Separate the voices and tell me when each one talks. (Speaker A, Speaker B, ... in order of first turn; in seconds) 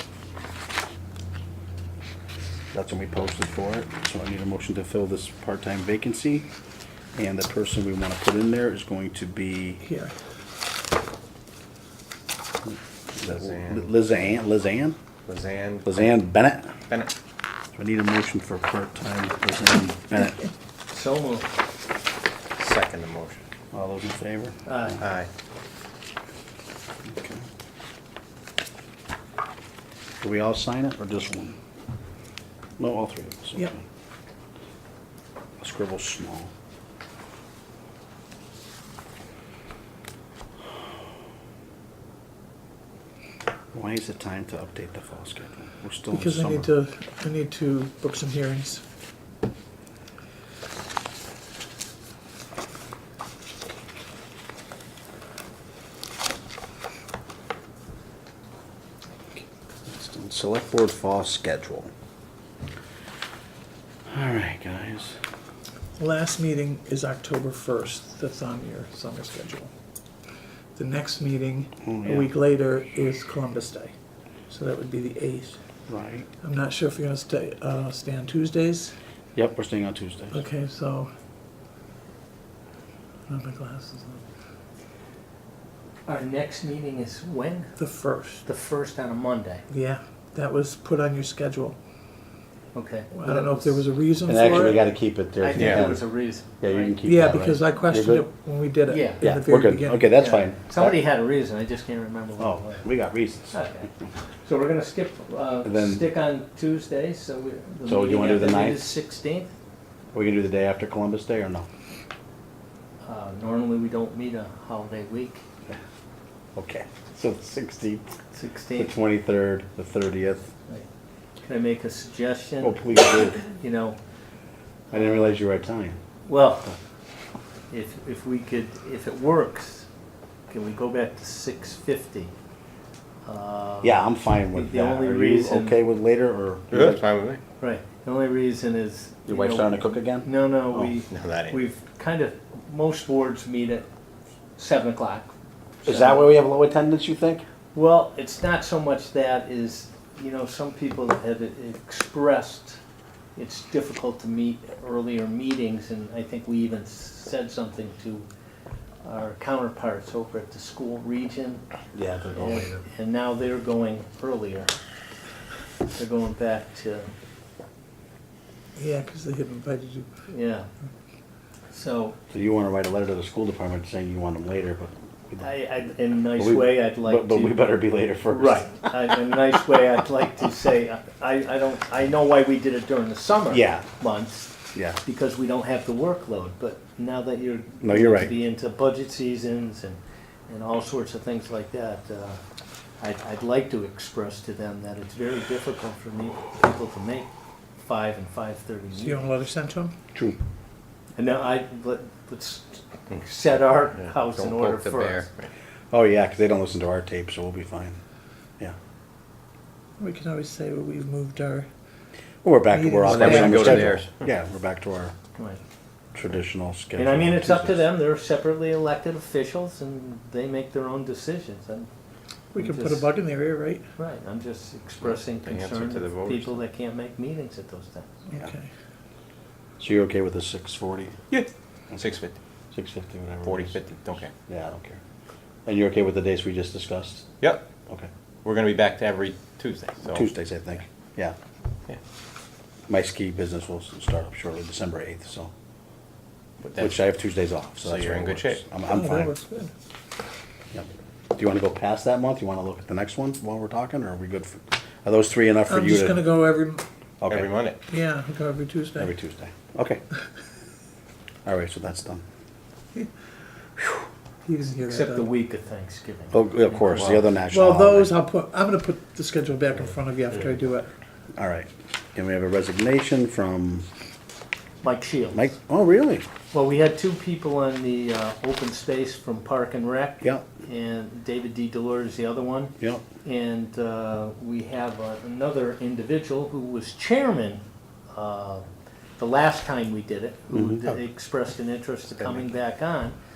Speaker A: 2.7-6.5, 7.2-9.8, 12.7-15.0, 15.9-16.7, 17.8-20.4, 23.7-24.6, 27.1-27.4, 30.2-31.6, 32.8-33.8, 35.6-36.5, 43.7-46.7, 59.9-61.9, 64.1-65.2, 71.9-72.3, 75.9-76.3, 79.3-80.4, 94.2-98.3, 99.2-101.0, 102.4-104.1, 105.7-106.0, 107.9-108.9, 110.1-111.7, 116.6-118.2, 118.8-120.5, 122.6-123.5, 124.9-126.0, 133.8-137.0, 139.3-140.9, 145.8-147.4, 161.9-162.8, 172.3-175.5, 176.4-178.9, 183.5-183.9, 187.8-188.3, 205.9-208.0, 212.4-215.1, 216.2-217.8, 229.8-231.1, 232.7-233.8, 234.3-235.0, 235.7-237.3, 240.1-241.3, 242.9-245.5, 246.8-249.3, 250.7-256.3, 257.2-257.5, 259.0-260.0, 261.5-262.2, 266.3-268.2, 271.4-273.9, 275.3-276.2, 290.5-291.0
Speaker B: 9.8-10.1, 46.1-48.8, 66.0-69.7, 70.8-73.9, 74.5-75.6, 76.4-79.0, 80.3-81.1, 83.3-84.2, 87.8-88.4, 89.7-91.8, 93.1-94.8, 97.0-100.2, 168.8-170.1, 199.0-199.9, 210.0-211.7, 212.7-213.9, 222.5-223.9, 228.3-228.7, 248.9-249.7, 255.7-256.8, 257.9-259.1, 264.4-265.3, 267.5-270.9
Speaker C: 13.2-13.9, 15.3-16.1, 22.6-23.4, 25.0-25.3, 95.5-95.9, 136.7-137.4, 141.1-141.6, 204.0-205.5, 213.1-214.3, 225.0-226.6, 231.3-232.4, 233.4-234.3, 238.4-240.3, 246.6-247.0, 247.8-248.6, 257.3-257.8, 266.9-267.2
Speaker D: 20.9-21.5, 24.7-25.0, 86.1-87.8, 88.4-89.6, 92.7-93.8, 95.4-97.0, 98.9-99.3, 100.1-102.9, 103.5-103.9, 104.5-109.5, 113.0-115.4, 118.3-118.9, 121.4-124.0, 124.9-125.4, 126.3-126.7, 127.7-129.9, 130.5-132.3, 133.3-135.8, 137.6-143.9, 144.6-145.3, 145.8-146.3, 147.7-152.8, 153.4-158.3, 159.0-161.6, 162.4-164.7, 165.9-167.1, 170.3-170.7, 171.7-172.2, 175.4-177.7, 178.2-192.4, 193.0-197.3, 197.8-199.3, 201.2-205.3, 215.3-215.6, 217.0-221.9, 222.6-223.1, 224.0-228.1, 264.9-267.1, 274.8-275.6, 276.5-287.6, 288.1-288.6, 289.2-293.1